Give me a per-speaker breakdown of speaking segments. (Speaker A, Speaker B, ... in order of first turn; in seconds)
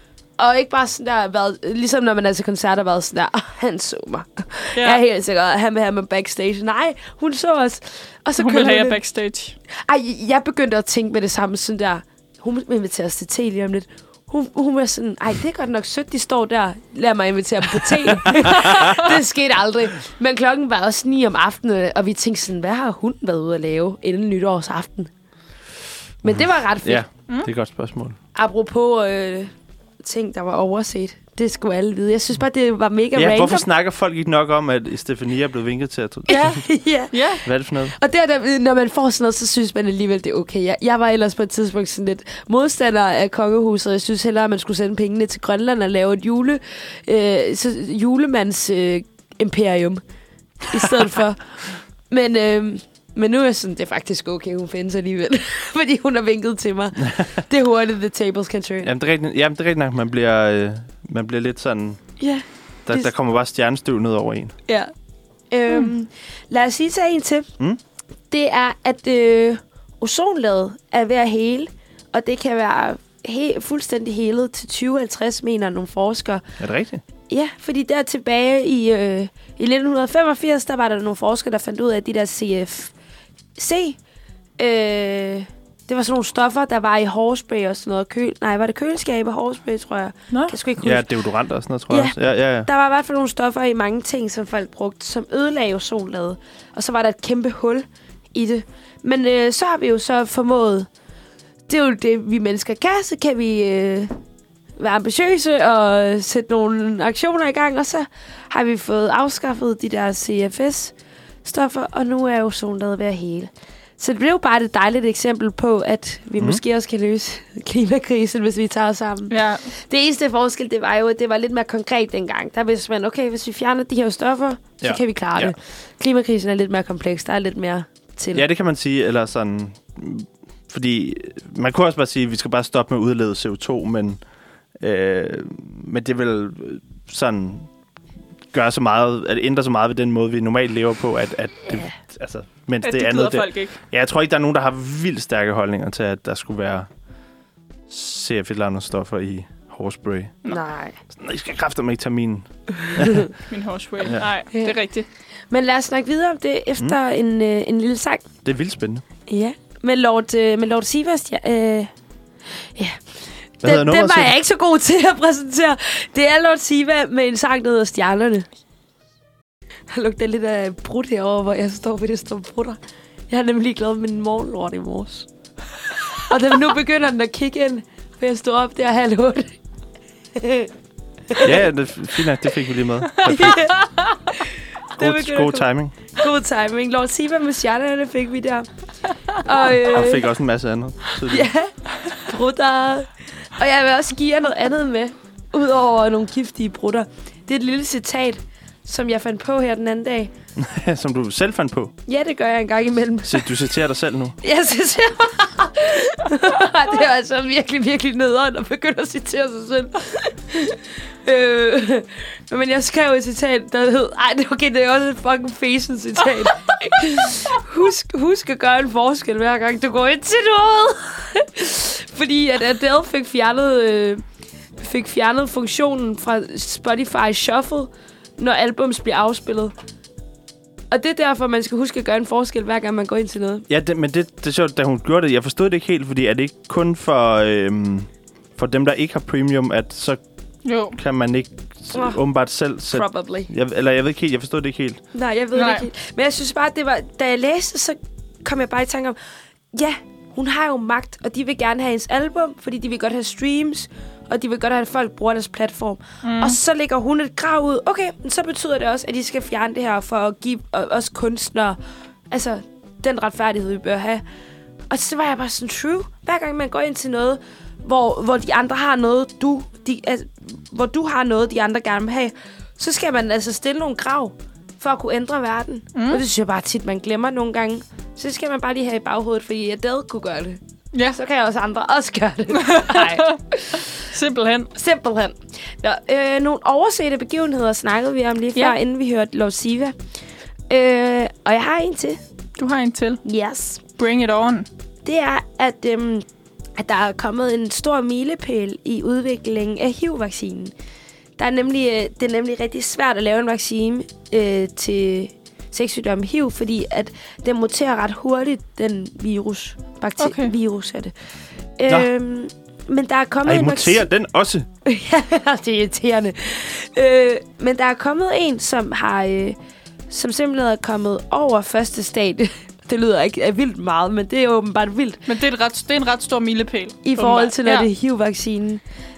Speaker A: 0.4-9.0, 9.8-25.1, 26.2-27.1, 28.3-29.5, 30.0-33.6, 36.3-50.0, 50.6-51.4, 52.1-58.9, 62.2-63.1, 65.5-67.5, 68.3-76.4, 77.3-82.9, 83.6-84.0, 84.6-91.1, 91.9-100.9, 101.7-104.2, 104.8-110.9, 111.4-128.4, 150.4-151.0, 152.9-153.3, 155.5-158.3, 159.3-161.9, 163.6-168.5, 169.9-172.8, 173.3-175.3, 175.9-179.6, 180.3-180.7, 181.3-181.6, 183.2-188.7, 189.3-190.3, 191.3-200.3, 202.1-203.5, 204.4-224.2, 224.8-229.7, 230.9-233.6, 241.9-242.2, 242.9-243.5, 245.1-249.2, 249.7-261.8, 262.3-264.2, 264.9-280.6, 281.1-283.9, 284.7-289.9, 290.7-292.2, 293.2-293.8, 295.0-296.2, 296.8-300.7, 301.4-311.1, 311.8-314.0, 314.9-319.6, 320.1-325.2, 327.0-328.8
Speaker B: 4.8-5.0, 8.4-9.6, 36.3-37.4, 90.3-90.5, 119.3-119.7, 142.8-143.8, 153.5-155.1, 183.3-183.8, 240.6-241.0, 245.5-245.9, 256.2-256.6, 275.9-276.2, 280.9-281.2, 282.5-284.7, 292.6-293.2, 294.0-294.7, 310.2-310.5, 325.2-327.9
Speaker C: 18.3-19.1, 26.3-28.2, 33.1-36.6, 37.4-38.0, 58.8-62.0, 62.9-64.5, 76.6-77.0, 90.8-92.7, 124.8-125.5, 128.3-134.2, 134.8-137.7, 138.5-146.9, 147.9-150.4, 151.1-153.3, 154.0-154.3, 158.4-159.0, 163.6-164.3, 181.4-183.7, 185.0-185.9, 189.9-191.5, 200.6-201.9, 203.2-204.3, 233.7-240.2, 241.0-245.0, 313.4-314.7